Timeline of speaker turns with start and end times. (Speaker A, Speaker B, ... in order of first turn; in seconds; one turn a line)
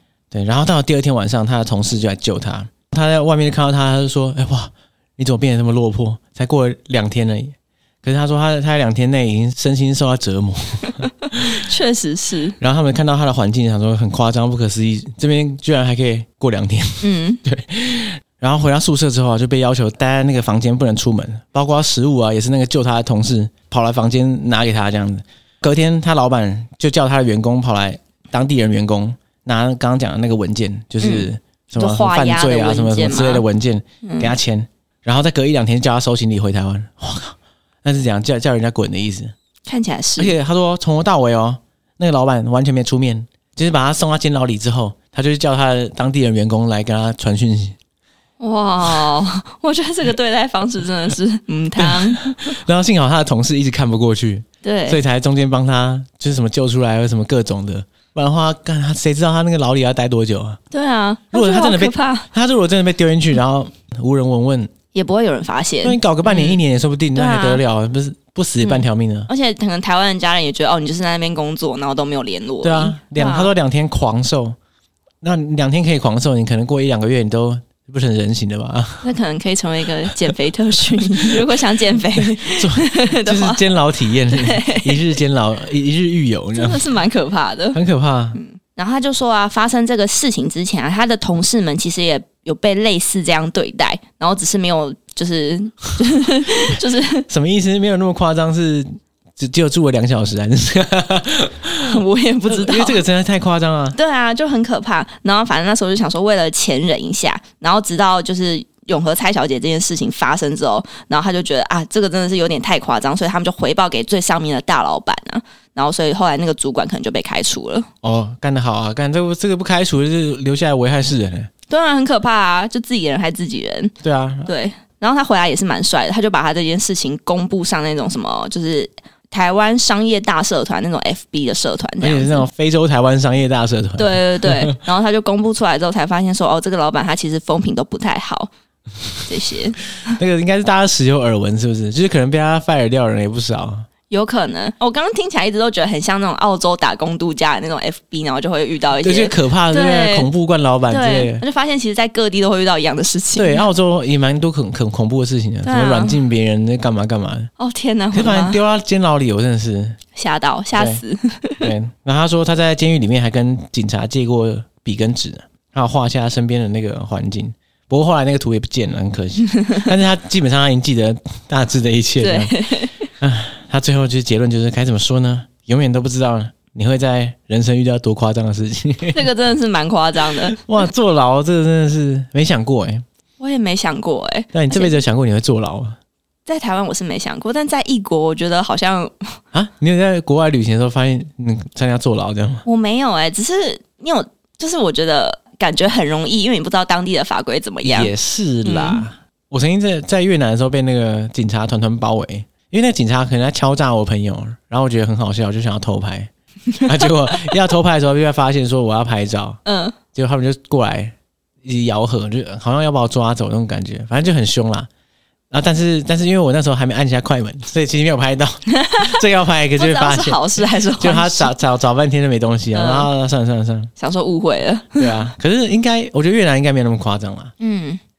Speaker A: 0.3-11.6
Speaker B: 11.5-12.6
Speaker A: 12.6-39.3
Speaker B: 17.0-17.4
Speaker B: 31.0-33.4
Speaker B: 34.0-34.3
Speaker B: 39.6-40.3
Speaker A: 40.2-47.8
Speaker B: 48.4-52.5
Speaker A: 51.8-60.6
Speaker B: 54.6-55.0
Speaker B: 60.7-62.3
Speaker A: 61.3-64.7
Speaker B: 64.9-66.6
Speaker A: 65.8-69.3
Speaker B: 67.1-67.6
Speaker B: 68.6-73.5
Speaker A: 72.6-74.6
Speaker A: 75.2-79.0
Speaker B: 79.0-83.6
Speaker A: 80.9-81.6
Speaker A: 82.1-86.8
Speaker B: 84.3-85.0
Speaker B: 86.5-87.8
Speaker A: 87.7-88.4
Speaker B: 88.3-97.3
Speaker A: 97.3-104.0
Speaker B: 101.8-103.0
Speaker B: 103.9-117.9
Speaker A: 118.0-121.5
Speaker B: 121.7-123.9
Speaker A: 124.0-124.5
Speaker B: 124.5-132.5
Speaker A: 132.0-134.8
Speaker B: 134.0-138.5
Speaker B: 139.2-139.8
Speaker A: 140.1-143.9
Speaker B: 144.1-150.3
Speaker A: 149.0-151.4
Speaker B: 150.9-153.6
Speaker A: 153.3-157.5
Speaker B: 155.6-156.2
Speaker B: 157.6-158.6
Speaker A: 158.1-160.0
Speaker B: 160.1-161.7
Speaker A: 160.8-161.0
Speaker A: 161.6-172.5
Speaker B: 172.2-173.0
Speaker A: 173.2-179.3
Speaker B: 179.1-180.6
Speaker A: 180.4-183.0
Speaker B: 183.4-184.9
Speaker A: 184.5-186.0
Speaker B: 186.4-189.3
Speaker A: 189.5-192.6
Speaker B: 192.7-198.1
Speaker A: 197.8-206.3
Speaker B: 198.6-199.0
Speaker A: 206.8-209.6
Speaker B: 209.7-210.0
Speaker A: 210.1-214.9
Speaker A: 215.5-223.9
Speaker B: 218.8-219.2
Speaker B: 219.8-221.5
Speaker B: 222.7-223.1
Speaker B: 224.0-225.3
Speaker A: 224.9-227.5
Speaker B: 227.6-228.0